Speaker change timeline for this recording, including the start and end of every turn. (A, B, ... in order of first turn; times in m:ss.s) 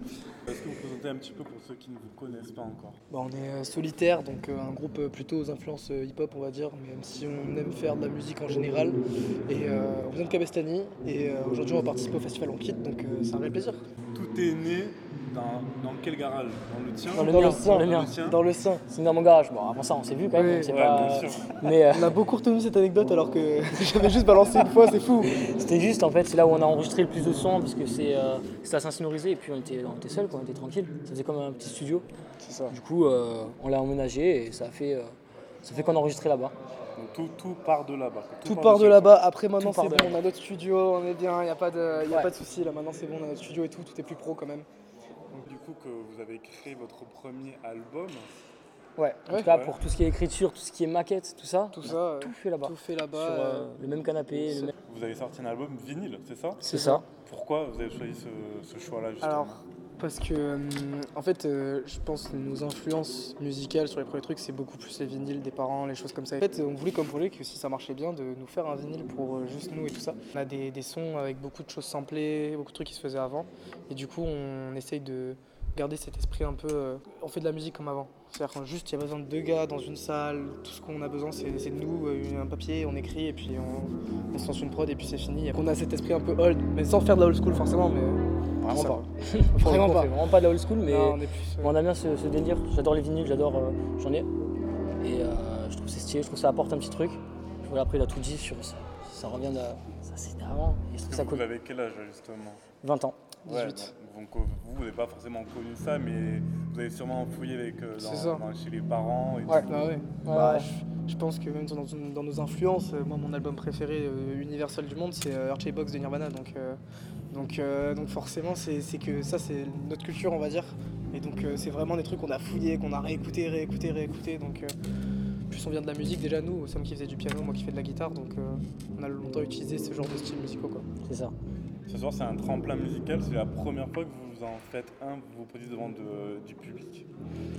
0:00.4-0:03.0 A
0:03.1-0:13.8 B
0:14.1-0:18.4 A
0:17.1-0:18.2 C
0:17.2-0:18.8 B
0:18.8-0:22.2 C
0:20.3-0:20.9 B
0:20.6-0:21.5 A
0:21.8-0:25.4 B
0:25.2-0:32.0 C
0:32.4-0:32.8 B
0:32.7-0:36.6 C
0:37.0-0:39.2 A
0:38.4-0:44.7 B
0:39.6-0:40.2 C
0:42.1-0:42.3 C
0:45.3-0:48.3 A
0:49.0-0:54.7 C
0:49.4-0:49.8 A
0:51.7-0:53.7 B
0:54.4-0:54.7 B
0:54.8-0:59.6 A
0:56.6-0:57.0 C
0:56.6-0:57.0 B
0:59.2-1:28.2 B
1:28.6-1:34.3 C
1:28.7-1:30.2 B
1:30.8-1:31.8 B
1:35.0-1:41.4 C
1:41.0-1:42.6 A
1:42.8-1:43.3 C
1:43.4-1:43.9 B
1:43.4-1:49.9 A
1:48.0-1:48.4 B
1:49.7-1:56.8 B
1:50.2-1:50.7 C
1:57.3-2:04.8 B
2:05.5-2:10.9 B
2:11.0-2:11.3 C
2:11.9-2:17.0 A